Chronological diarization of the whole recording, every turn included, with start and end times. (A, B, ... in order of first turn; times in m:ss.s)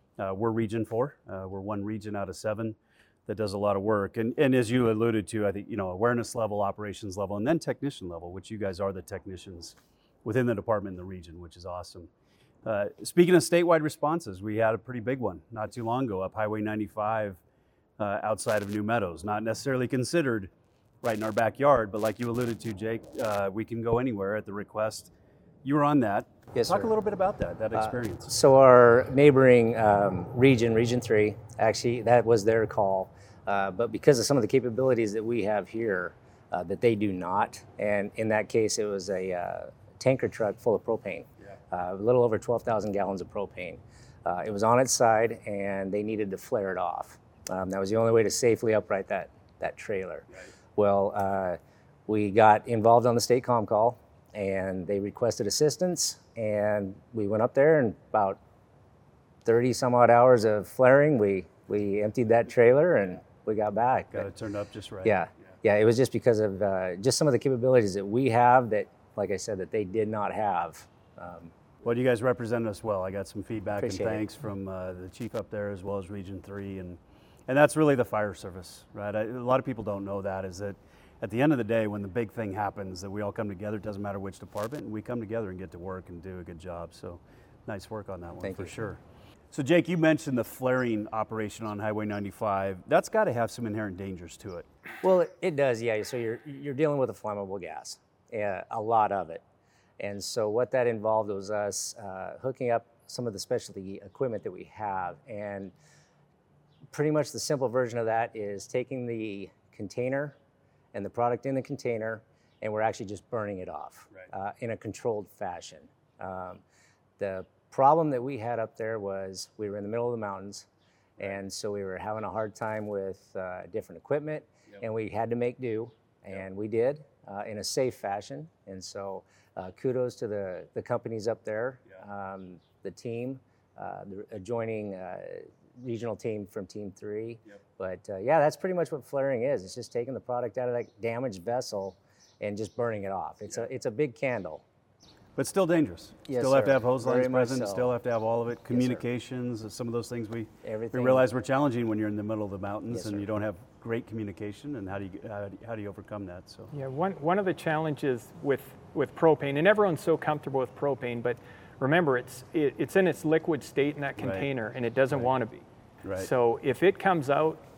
0:00.2-0:12.1 A
0:12.6-0:17.4 A
0:18.0-0:20.5 A
0:21.0-0:25.1 A
0:25.6-0:28.3 A
0:26.5-0:26.9 B
0:27.7-0:58.4 B
0:59.4-1:04.3 B
1:04.1-1:05.2 A
1:05.0-1:11.5 B
1:11.8-1:29.0 A
1:13.8-1:14.2 B
1:28.4-1:28.8 B
1:29.5-1:34.7 A
1:35.0-1:39.4 B
1:40.0-1:45.7 B
1:46.9-1:50.4 B
1:50.9-1:56.6 B
1:57.2-2:00.7 B
2:01.2-2:24.6 B
2:25.4-2:36.7 A
2:26.3-2:27.9 B
2:28.7-2:29.0 B
2:30.6-2:31.3 B
2:32.9-2:33.3 B
2:36.7-2:47.6 C
2:44.2-2:44.5 A
2:46.0-2:46.3 A